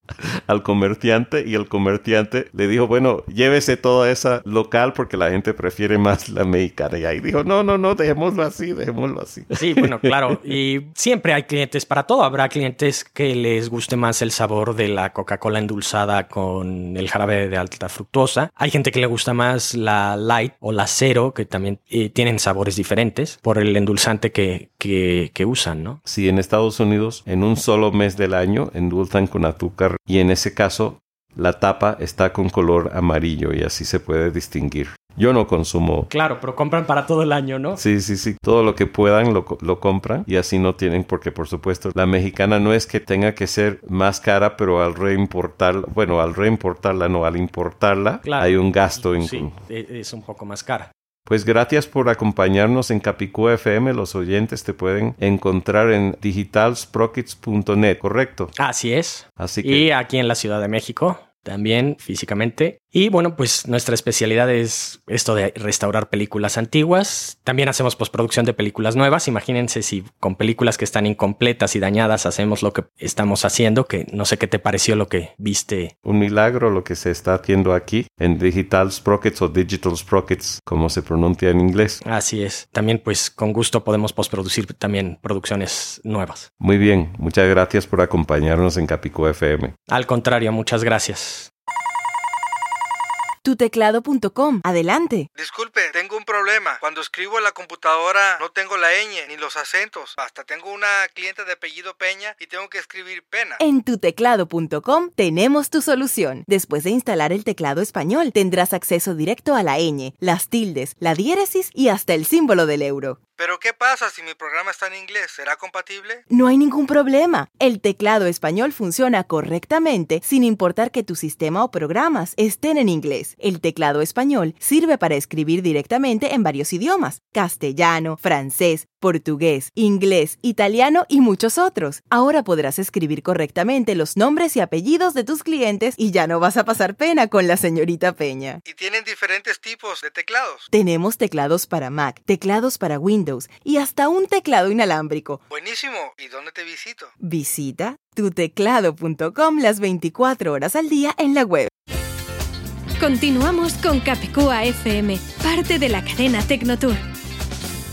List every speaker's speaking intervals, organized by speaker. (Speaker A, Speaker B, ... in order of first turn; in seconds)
Speaker A: 0.2-10.1, 26.1-36.1, 37.8-49.5, 51.3-58.5, 59.4-59.9, 76.0-82.0, 86.6-89.8
Speaker B: 9.5-26.0, 36.1-37.8, 48.2-50.9, 58.6-75.9, 82.0-86.5, 89.9-91.5
Speaker C: 93.4-95.3, 103.6-113.2, 116.3-138.6, 140.7-145.4, 147.2-151.7
Speaker D: 95.3-103.6, 113.4-116.2, 138.6-140.7, 145.5-147.1
Speaker E: 153.0-157.0